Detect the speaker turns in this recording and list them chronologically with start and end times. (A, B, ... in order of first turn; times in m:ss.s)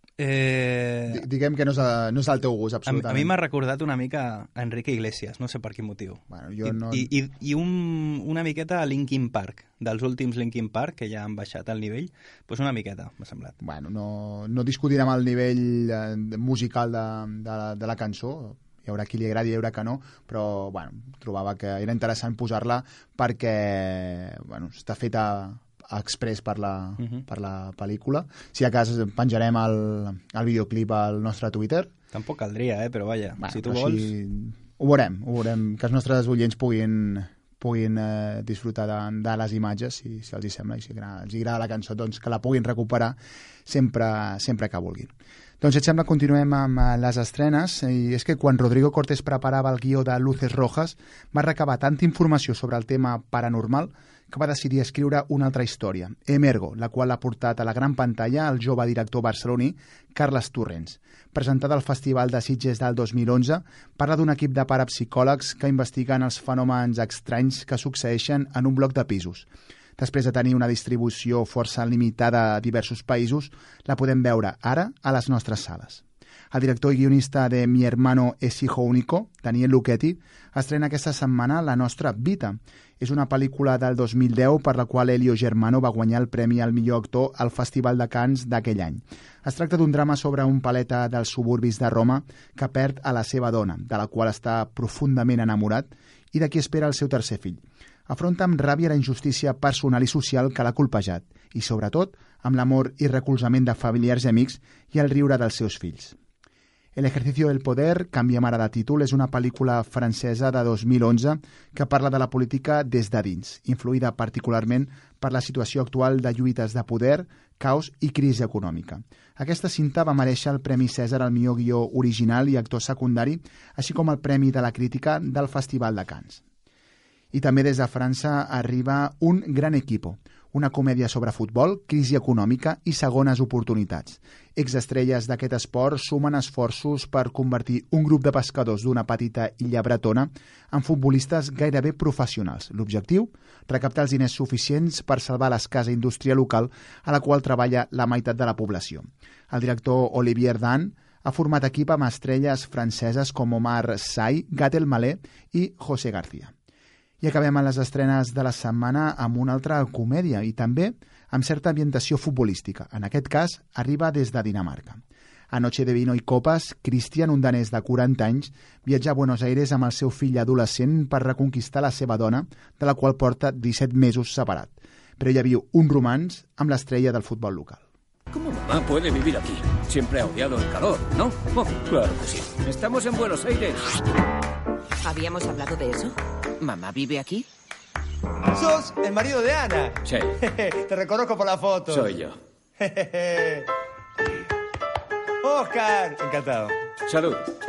0:00.2-0:01.2 A
0:01.1-0:03.3 B
0:02.8-0:13.5 A
0:06.3-0:07.1 B
0:13.6-0:31.9 B
0:27.0-0:27.2 A
0:32.1-0:34.1 A
0:33.4-1:46.2 B
1:46.9-2:06.4 B
2:07.3-2:36.5 B
2:37.2-2:57.8 B
2:58.3-3:03.8 C
3:05.0-3:07.4 D
3:08.5-3:12.1 E
3:10.0-3:10.3 C
3:11.9-3:12.4 C
3:12.8-3:13.6 E
3:15.4-3:16.8 E
3:17.1-3:17.4 C